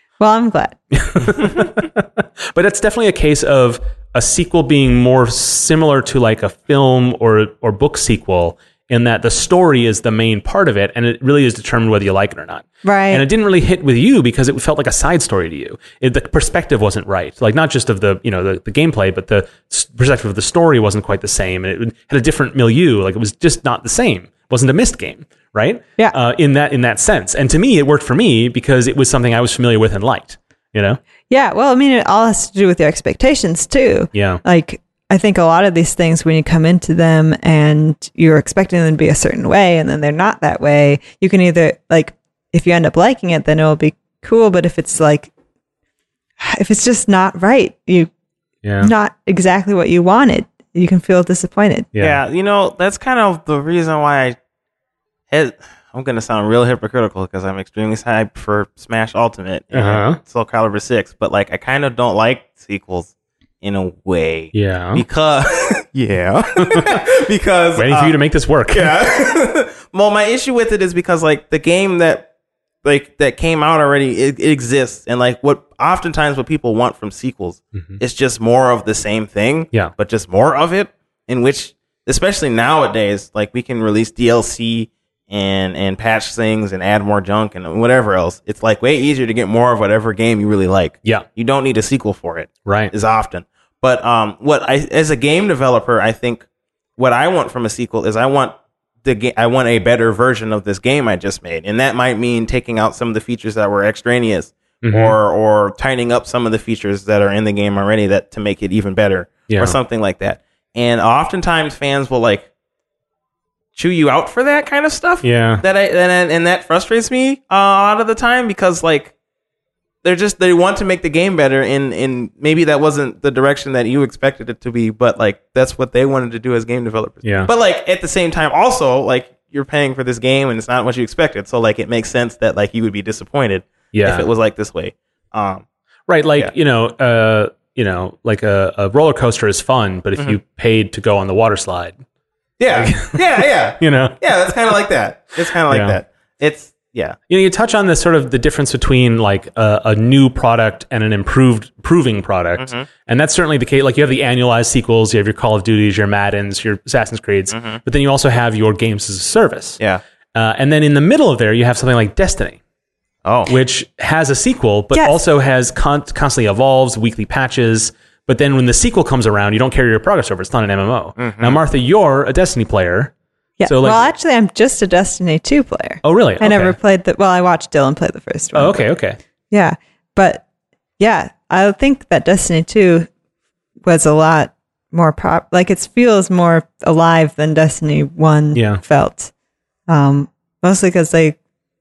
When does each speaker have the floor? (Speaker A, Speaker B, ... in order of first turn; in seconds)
Speaker A: 0.2-0.8, 12.8-13.3, 31.3-45.3, 46.4-48.1, 48.8-51.9, 173.6-178.8, 179.5-180.4, 181.0-183.1, 183.8-189.3, 189.9-191.4
Speaker B: 0.9-31.0, 34.1-34.4, 48.6-48.9, 52.0-52.2, 59.7-60.2, 64.5-65.0, 66.7-67.0, 67.8-69.0, 92.7-92.9, 104.8-105.2, 109.5-109.8, 115.2-115.6, 127.2-127.5, 133.9-134.3, 136.1-142.0, 142.7-144.2, 145.7-146.0, 147.3-159.8, 160.3-162.6, 163.5-173.1, 173.7-174.1, 176.0-176.8, 178.5-179.2, 188.5-188.8
Speaker C: 52.0-54.4, 55.3-68.2, 68.7-72.3, 72.8-96.5, 97.0-112.5, 113.8-119.1, 120.0-135.7, 142.6-147.2, 152.6-152.9, 157.5-157.8, 163.2-163.5, 171.2-171.6